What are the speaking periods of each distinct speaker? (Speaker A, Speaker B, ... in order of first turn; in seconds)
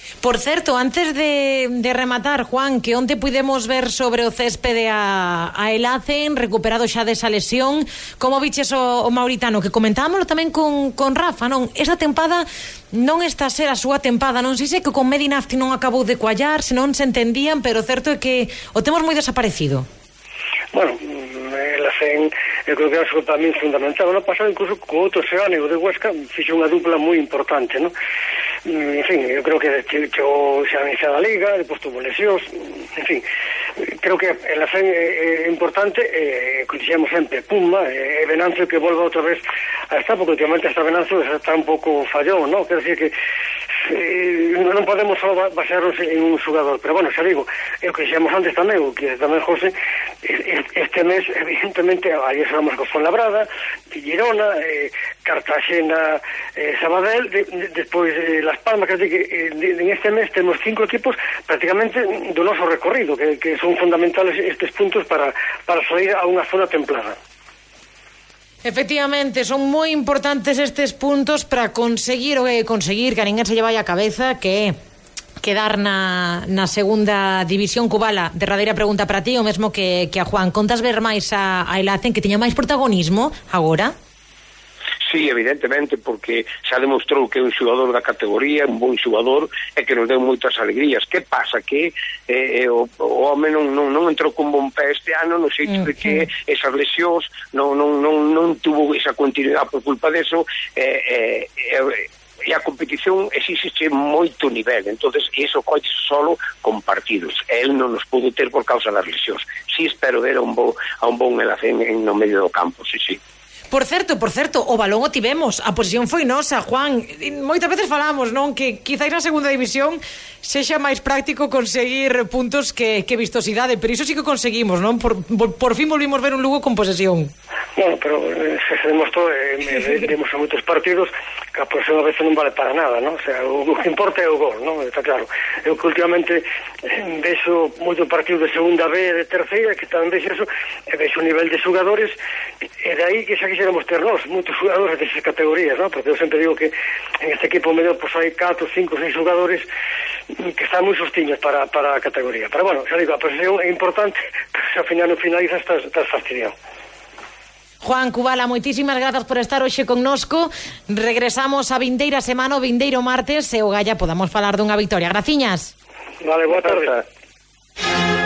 Speaker A: 0.2-19.9, 68.7-74.8, 75.4-83.9, 113.7-127.3, 157.8-165.7
Speaker B: 20.7-27.9, 28.7-33.2, 33.8-43.1, 43.9-49.7, 50.2-67.2, 127.8-142.2, 142.8-149.7, 150.4-156.6, 166.2-167.0
Speaker C: 85.0-113.2